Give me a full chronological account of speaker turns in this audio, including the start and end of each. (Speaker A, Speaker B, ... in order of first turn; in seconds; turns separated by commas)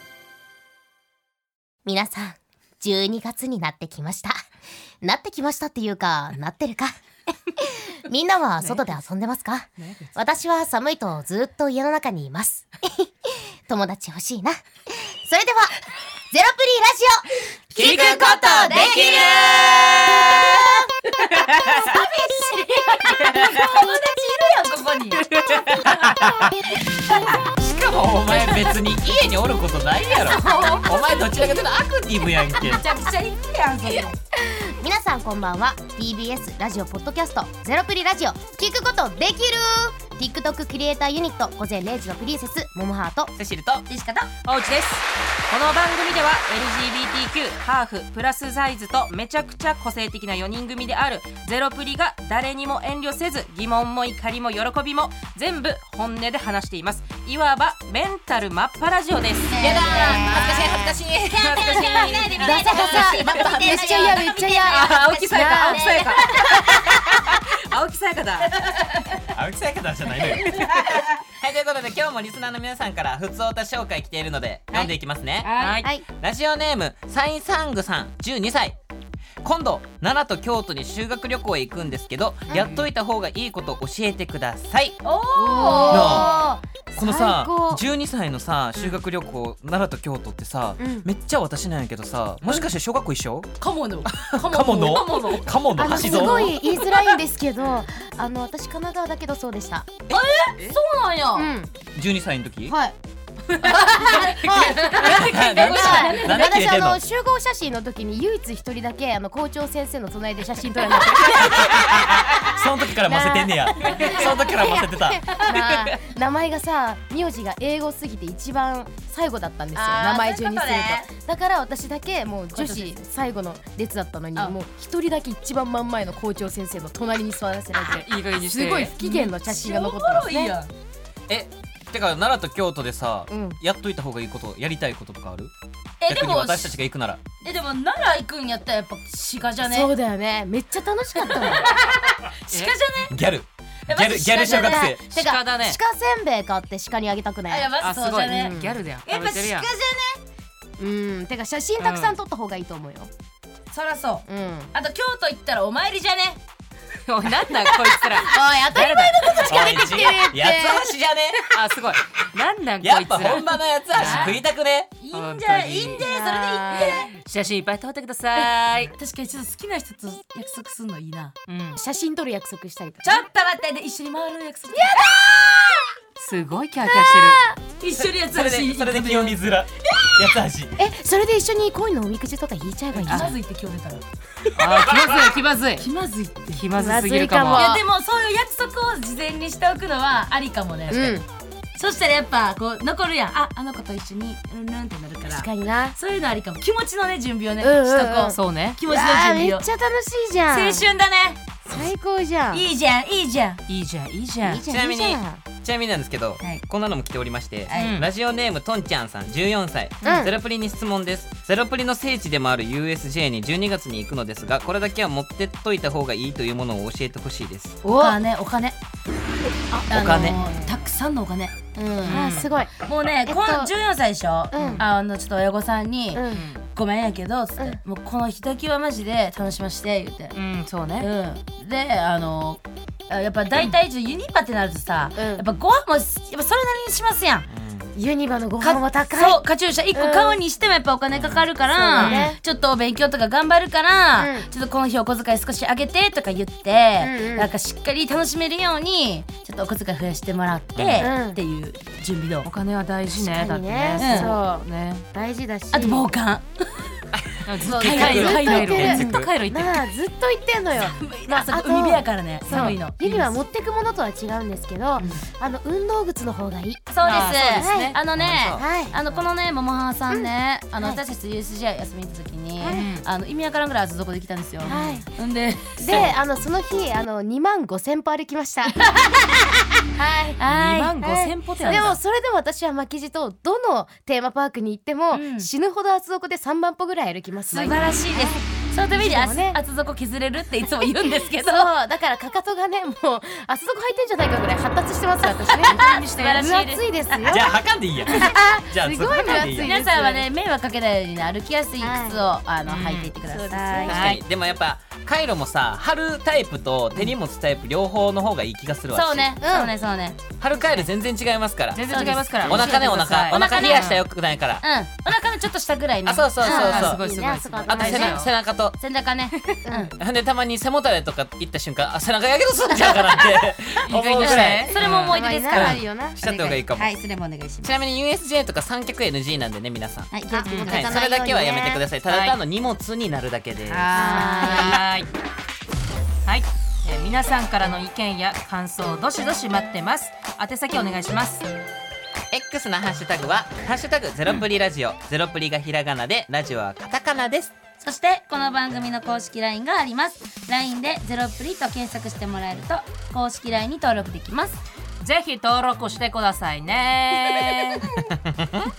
Speaker A: 1.9-4.4, Speaker A: 5.0-15.7, Speaker A: 16.3-17.2, Speaker B: 17.8-20.6, Speaker C: 17.8-20.4, Speaker A: 17.8-19.3, Speaker D: 21.4-21.7, Speaker C: 21.7-25.2, Speaker D: 25.3-25.7, Speaker C: 25.8-27.1, Speaker B: 27.4-32.9, Speaker C: 30.2-31.4, Speaker C: 32.5-34.1, Speaker A: 34.5-43.3, Speaker B: 43.4-43.9, Speaker C: 43.9-44.3, Speaker D: 44.5-59.6, Speaker C: 59.5-60.8, Speaker B: 59.6-61.8, Speaker A: 59.6-60.9, Speaker C: 61.3-66.8, Speaker D: 61.4-63.8, Speaker A: 62.4-66.5, Speaker B: 62.7-64.2, Speaker D: 64.6-68.5, Speaker C: 68.7-69.0, Speaker B: 69.3-75.5, Speaker C: 70.4-71.0, Speaker C: 75.4-75.8, Speaker D: 75.6-75.9, Speaker B: 76.1-78.8, Speaker B: 79.4-85.0, Speaker D: 82.5-82.9, Speaker C: 85.0-86.6, Speaker A: 85.3-87.8, Speaker B: 85.9-86.4, Speaker B: 87.0-93.5, Speaker A: 90.8-91.1, Speaker C: 93.6-96.9, Speaker B: 94.0-96.5, Speaker A: 95.8-99.9, Speaker C: 100.1-101.5, Speaker A: 101.3-101.7, Speaker B: 101.9-102.8, Speaker A: 102.7-103.0, Speaker D: 103.6-105.8, Speaker C: 103.7-106.5, Speaker B: 103.9-104.3, Speaker A: 104.5-112.0, Speaker B: 105.0-107.0, Speaker B: 111.3-115.4, Speaker A: 112.9-130.6, Speaker C: 113.8-114.5, Speaker C: 119.8-121.1, Speaker C: 122.5-123.0, Speaker D: 127.8-128.9, Speaker C: 129.0-130.7, Speaker B: 131.3-135.5, Speaker A: 133.3-133.6, Speaker C: 136.0-136.8, Speaker B: 136.1-137.2, Speaker C: 137.4-139.9, Speaker A: 139.6-141.7, Speaker C: 141.1-143.2, Speaker D: 142.5-142.8, Speaker B: 143.1-145.1, Speaker C: 143.9-145.0, Speaker A: 144.4-147.7, Speaker D: 145.1-145.8, Speaker C: 147.5-150.2, Speaker D: 147.8-149.7, Speaker A: 148.3-148.8, Speaker A: 150.8-153.1, Speaker D: 151.8-152.2, Speaker C: 153.7-156.4, Speaker A: 154.3-154.7, Speaker D: 157.1-159.2, Speaker A: 158.2-160.9, Speaker C: 158.2-160.2, Speaker B: 159.4-161.5, Speaker D: 161.5-164.4, Speaker B: 162.8-164.9, Speaker C: 164.0-164.4, Speaker C: 165.0-167.1, Speaker D: 165.1-168.9, Speaker A: 166.1-166.9, Speaker C: 168.4-171.3, Speaker D: 171.5-171.8, Speaker A: 171.8-173.2, Speaker C: 173.0-175.1, Speaker A: 174.7-175.8, Speaker D: 176.2-177.4, Speaker C: 176.9-179.4, Speaker B: 177.9-180.8, Speaker A: 180.8-183.3, Speaker C: 183.0-184.0, Speaker D: 183.1-183.3, Speaker D: 184.6-185.9, Speaker C: 185.8-186.6, Speaker D: 186.5-187.7, Speaker A: 186.8-187.8, Speaker C: 187.5-191.2, Speaker A: 190.9-191.2, Speaker C: 191.8-199.7, Speaker A: 195.2-196.0, Speaker A: 197.6-198.4, Speaker D: 198.3-198.8, Speaker A: 198.9-200.9, Speaker C: 200.5-201.4, Speaker A: 201.7-202.7, Speaker C: 202.5-203.6, Speaker D: 203.7-204.6, Speaker A: 204.4-205.4, Speaker B: 204.7-217.8, Speaker C: 207.7-208.0, Speaker D: 207.7-208.1, Speaker A: 210.0-210.3, Speaker A: 217.8-218.2, Speaker C: 217.9-218.8, Speaker C: 219.9-222.2, Speaker B: 219.9-220.4, Speaker D: 222.1-222.5, Speaker A: 222.1-223.7, Speaker C: 222.8-230.3, Speaker A: 224.5-224.8, Speaker D: 224.6-224.9, Speaker A: 226.1-226.5, Speaker D: 226.3-226.6, Speaker D: 230.3-231.1, Speaker C: 231.0-237.5, Speaker A: 235.2-235.4, Speaker B: 237.5-237.9, Speaker A: 237.9-239.4, Speaker C: 238.6-252.5, Speaker A: 239.9-240.4, Speaker B: 241.1-241.5, Speaker A: 241.7-242.4, Speaker A: 244.2-244.5, Speaker A: 247.0-247.5, Speaker B: 250.8-251.1, Speaker A: 251.0-251.4, Speaker D: 252.4-255.1, Speaker A: 253.2-256.1, Speaker C: 254.0-254.3, Speaker C: 255.7-256.4, Speaker B: 257.1-259.3, Speaker D: 257.5-259.9, Speaker C: 257.6-259.0, Speaker A: 258.0-268.0, Speaker C: 260.8-262.9, Speaker D: 262.5-263.3, Speaker C: 266.9-276.1, Speaker D: 267.0-268.0, Speaker B: 268.1-268.7, Speaker A: 268.5-268.9, Speaker A: 270.1-271.0, Speaker A: 272.6-272.9, Speaker D: 272.7-273.0, Speaker A: 274.6-275.1, Speaker A: 275.8-278.9, Speaker C: 278.8-279.3, Speaker A: 279.9-280.4, Speaker C: 280.4-281.0, Speaker D: 280.5-282.0, Speaker A: 281.0-289.6, Speaker C: 281.6-281.9, Speaker C: 285.1-285.5, Speaker C: 287.5-291.7, Speaker D: 287.5-287.8, Speaker A: 291.4-300.3, Speaker C: 295.5-297.4, Speaker D: 295.7-296.1, Speaker B: 297.3-299.7, Speaker C: 298.1-298.6, Speaker C: 299.2-304.1, Speaker A: 301.8-302.2, Speaker D: 302.7-303.1, Speaker A: 303.3-303.9, Speaker D: 303.8-304.2, Speaker B: 303.9-309.3, Speaker C: 308.9-310.2, Speaker A: 309.4-309.7, Speaker B: 310.4-314.6, Speaker D: 310.6-310.9, Speaker D: 311.7-314.0, Speaker C: 311.9-314.0, Speaker C: 314.6-316.9, Speaker B: 316.1-317.0, Speaker A: 316.4-318.3, Speaker D: 316.4-318.3, Speaker B: 317.7-318.8, Speaker C: 317.7-318.2, Speaker C: 318.8-319.9, Speaker A: 319.6-319.9, Speaker B: 320.0-324.8, Speaker C: 322.9-323.2, Speaker D: 323.8-325.2, Speaker C: 324.2-327.7, Speaker A: 324.8-326.2, Speaker B: 325.5-326.9, Speaker B: 327.6-333.9, Speaker C: 330.1-331.0, Speaker A: 330.3-331.8, Speaker D: 330.4-330.8, Speaker D: 332.1-332.4, Speaker C: 333.7-334.8, Speaker A: 333.9-334.8, Speaker D: 334.4-335.1, Speaker D: 336.2-341.5, Speaker B: 342.3-347.5, Speaker C: 347.8-354.6, Speaker D: 355.0-357.8, Speaker B: 358.3-358.6